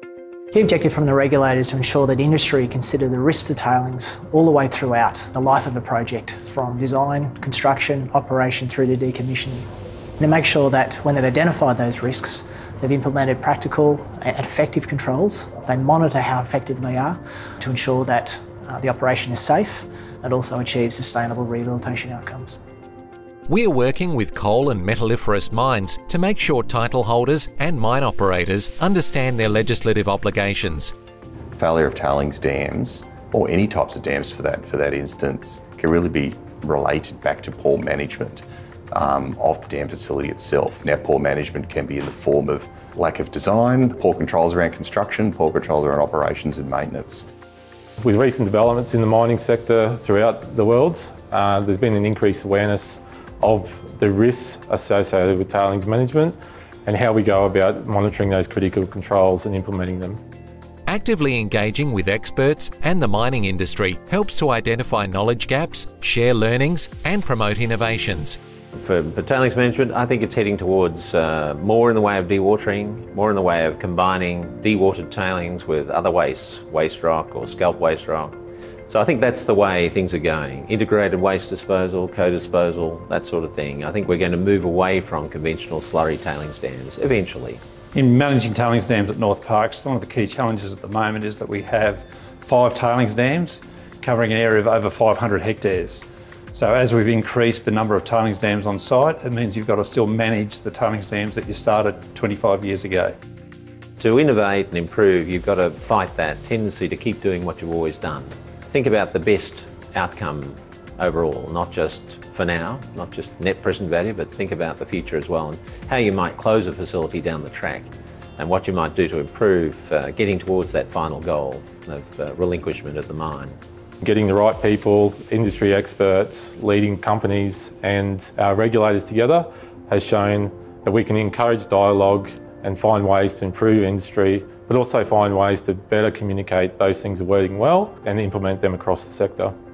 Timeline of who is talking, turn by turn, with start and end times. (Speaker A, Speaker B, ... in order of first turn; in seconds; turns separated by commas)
Speaker A: 0.5-9.7, Speaker A: 10.2-22.6, Speaker B: 23.4-30.9, Speaker C: 31.5-47.3, Speaker D: 48.0-60.2, Speaker B: 60.9-68.4, Speaker E: 68.8-78.3, Speaker E: 78.9-87.6, Speaker F: 87.9-103.2, Speaker E: 104.0-123.6, Speaker D: 124.0-139.5